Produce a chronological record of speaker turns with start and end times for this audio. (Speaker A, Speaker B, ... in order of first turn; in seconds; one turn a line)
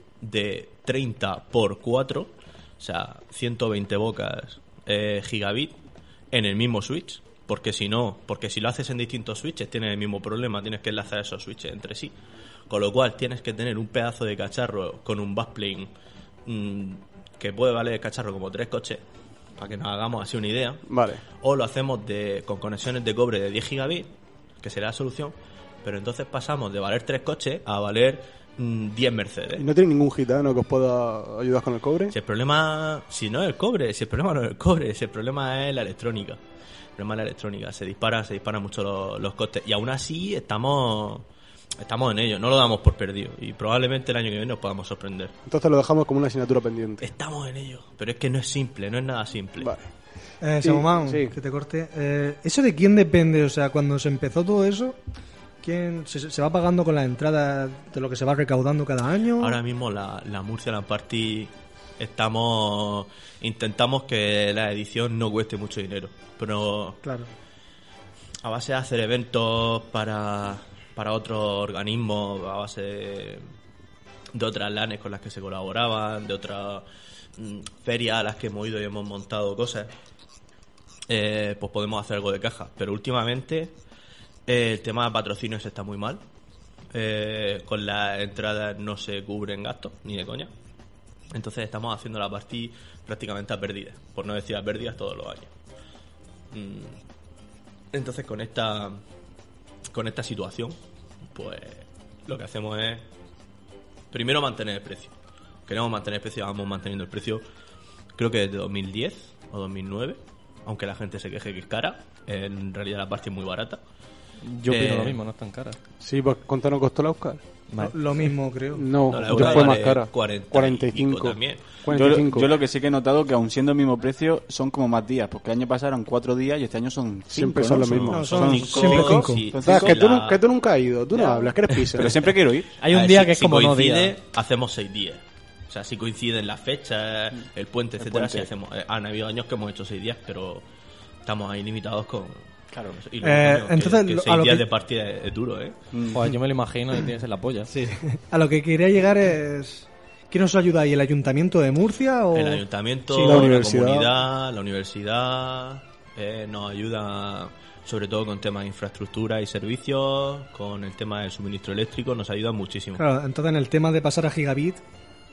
Speaker A: 0.2-5.8
Speaker A: 6.3-12.1
Speaker A: 12.7-15.9
Speaker A: 16.4-19.0
Speaker A: 19.6-20.8
Speaker B: 20.9-21.2
Speaker A: 21.4-24.1
Speaker A: 24.6-29.6
Speaker B: 29.5-32.1
Speaker A: 32.1-36.4
Speaker A: 37.0-41.3
Speaker A: 41.8-45.3
Speaker B: 45.5-47.1
Speaker A: 47.0-49.7
Speaker B: 49.6-49.9
Speaker C: 50.4-55.0
Speaker B: 50.6-51.3
Speaker C: 55.6-59.6
Speaker A: 59.4-67.0
Speaker A: 68.4-73.4
Speaker A: 74.3-76.8
Speaker A: 77.4-79.9
Speaker A: 81.1-83.7
Speaker A: 84.5-86.2
Speaker A: 86.9-90.5
Speaker A: 91.3-95.5
Speaker A: 96.5-97.0
Speaker A: 97.9-99.0
Speaker A: 99.9-100.8
Speaker A: 101.3-103.0
Speaker A: 104.1-105.1
Speaker A: 105.7-107.4
Speaker A: 108.2-113.8
Speaker D: 114.4-115.8
Speaker A: 114.7-115.2
Speaker B: 116.0-117.4
Speaker C: 117.8-118.8
Speaker B: 118.7-122.5
Speaker A: 119.1-121.7
Speaker D: 119.3-119.8
Speaker E: 121.9-130.0
Speaker B: 127.3-128.2
Speaker A: 127.8-130.4
Speaker C: 128.1-129.5
Speaker B: 129.6-132.3
Speaker E: 131.1-132.8
Speaker D: 132.8-134.2
Speaker A: 132.8-140.6
Speaker E: 138.0-138.5
Speaker A: 141.2-142.4
Speaker E: 142.7-143.0
Speaker A: 143.0-145.8
Speaker C: 143.2-144.7
Speaker E: 145.9-146.2
Speaker D: 146.1-147.7
Speaker C: 147.7-153.5
Speaker A: 152.3-163.1
Speaker B: 153.1-154.1
Speaker C: 162.9-164.8